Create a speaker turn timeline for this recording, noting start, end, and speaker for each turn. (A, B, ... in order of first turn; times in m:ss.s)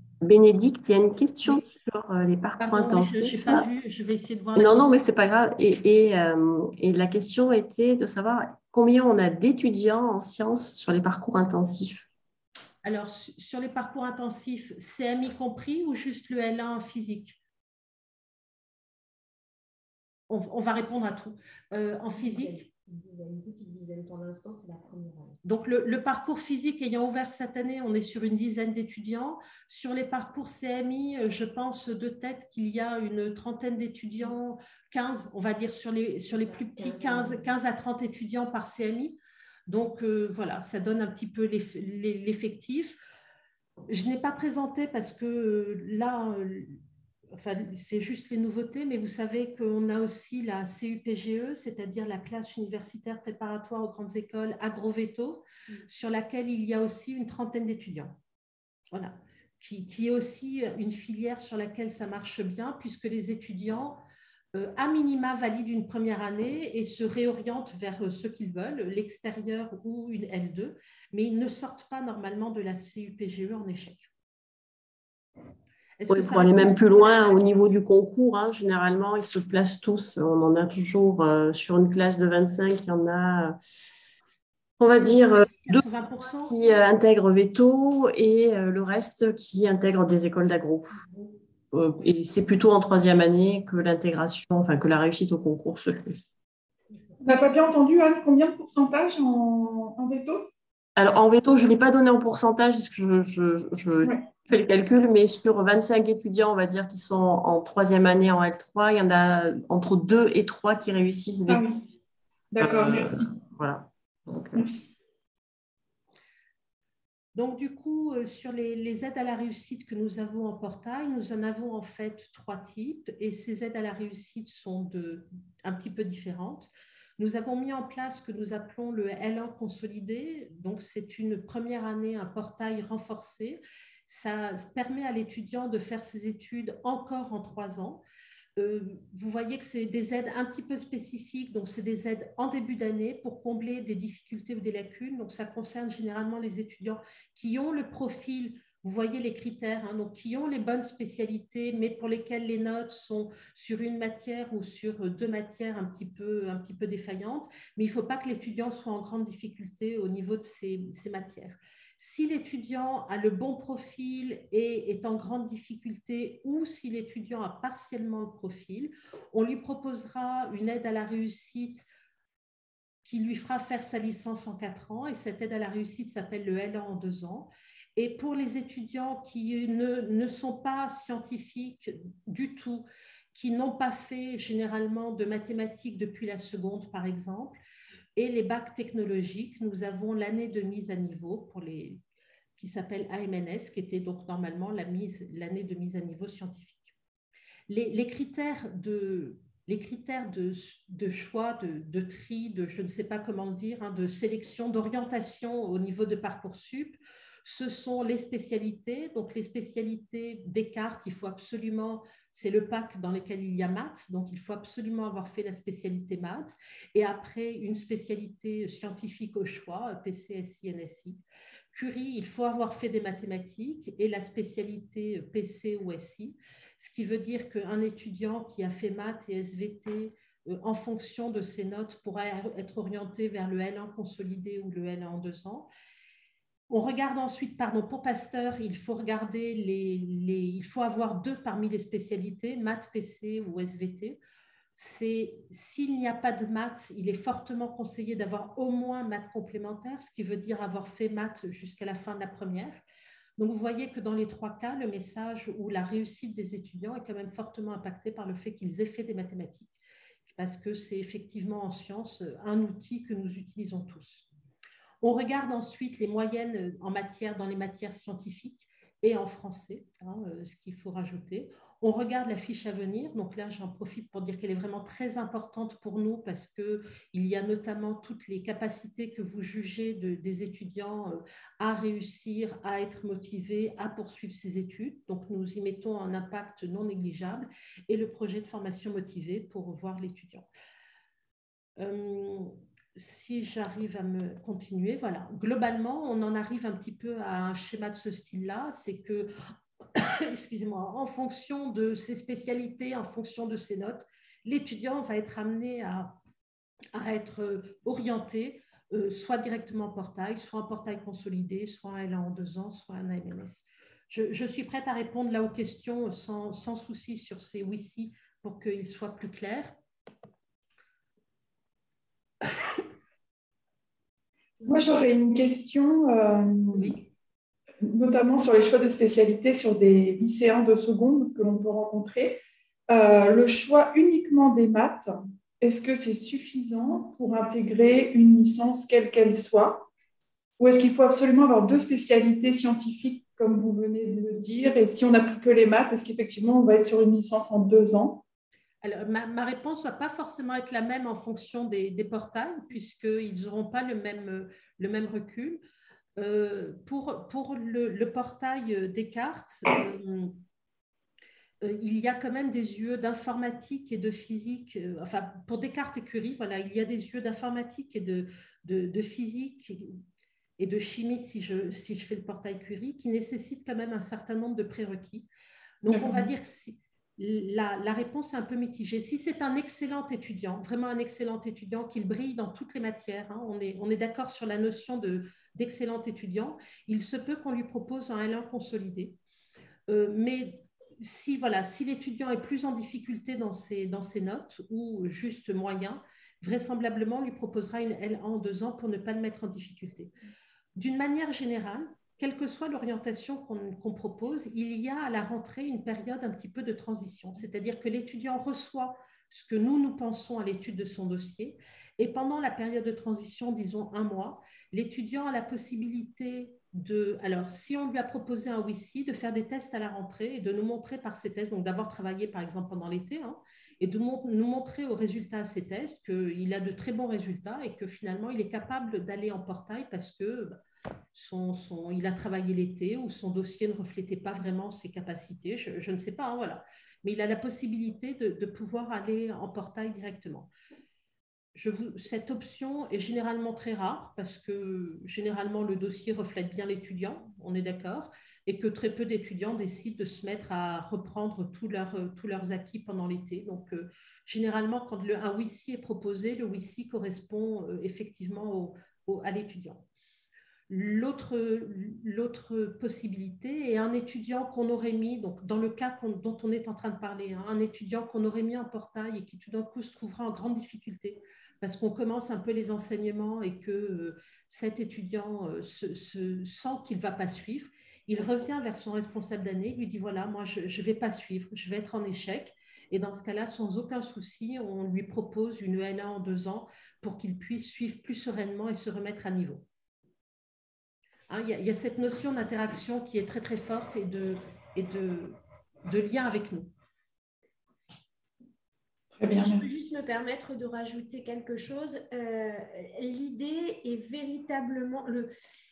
0:00.2-0:03.6 A
0:02.6-0:05.0 B
0:04.6-0:12.1 A
0:12.8-0:17.4 B
0:20.3-0:22.7 B
0:22.2-0:25.4 C
0:25.4-0:43.0 B
0:36.3-0:37.5 C
0:43.9-0:46.8 B
0:47.3-0:58.2 B
0:58.9-1:04.0 B
1:04.5-1:14.1 B
1:16.0-1:17.4 B
1:16.1-1:23.6 A
1:24.8-1:25.8 A
1:25.6-1:26.6 B
1:26.5-1:31.0 A
1:31.7-1:36.2 A
1:37.2-1:40.5 D
1:41.0-1:51.6 A
1:51.5-1:51.8 D
1:52.5-1:53.3 D
1:52.6-1:54.6 A
1:54.5-1:54.9 D
1:57.4-2:18.0 B
2:18.6-2:51.9 B
2:53.0-3:07.6 B
3:08.2-3:12.0 B
3:12.6-3:16.9 B
3:17.7-3:41.2 B
3:41.7-3:55.7 B
3:56.7-4:04.2 B
4:04.8-4:12.8 B
4:13.4-4:19.7 B
4:20.3-4:24.3 B
4:25.0-4:50.5 B
4:51.8-4:59.3 B
4:59.9-5:06.2 B
5:06.9-5:19.8 B
5:24.6-5:27.0 D
5:26.7-5:27.1 B
5:27.8-5:39.9 D
5:40.6-5:48.2 D
5:48.8-5:55.6 B
5:56.2-6:00.4 B
6:01.6-6:10.0 B
6:10.6-6:15.3 B
6:15.8-6:29.2 B
6:15.9-6:16.3 D
6:29.9-6:40.1 B
6:40.8-7:10.6 B
7:11.1-7:20.5 B
7:21.5-7:39.8 B
7:40.7-8:09.6 B
8:11.3-8:16.7 B
8:19.1-8:19.7 D
8:19.2-8:25.3 C